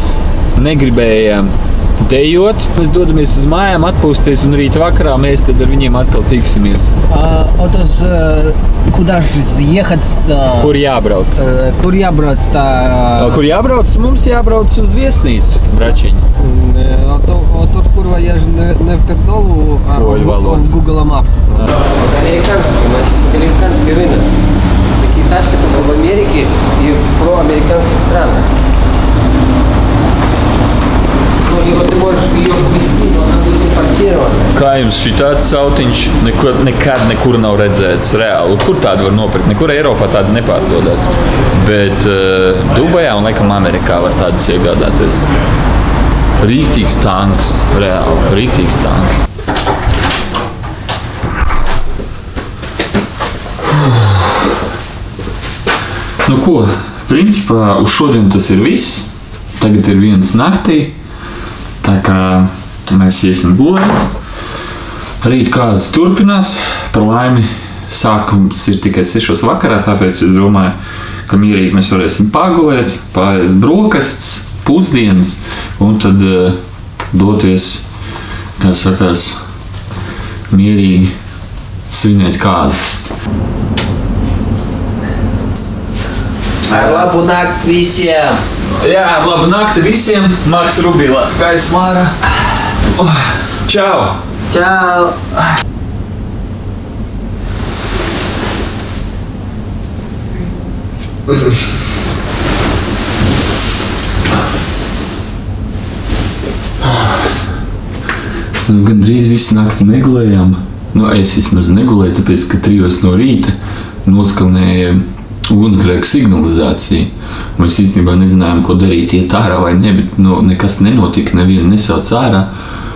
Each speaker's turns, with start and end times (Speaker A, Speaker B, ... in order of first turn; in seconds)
Speaker A: 0.6-6.9, 10.5-11.4, 13.2-16.2, 19.9-20.8, 34.5-45.3, 46.4-49.2, 56.2-60.9, 61.8-64.0, 65.2-70.7, 71.3-76.6, 77.1-77.8, 78.6-79.4, 80.5-81.1, 81.9-83.1, 86.7-87.1, 88.8-94.2, 108.7-122.5
Speaker B: 7.1-10.8, 11.3-13.4, 16.4-24.3, 24.9-28.5, 31.4-34.5, 86.6-88.4, 94.5-95.5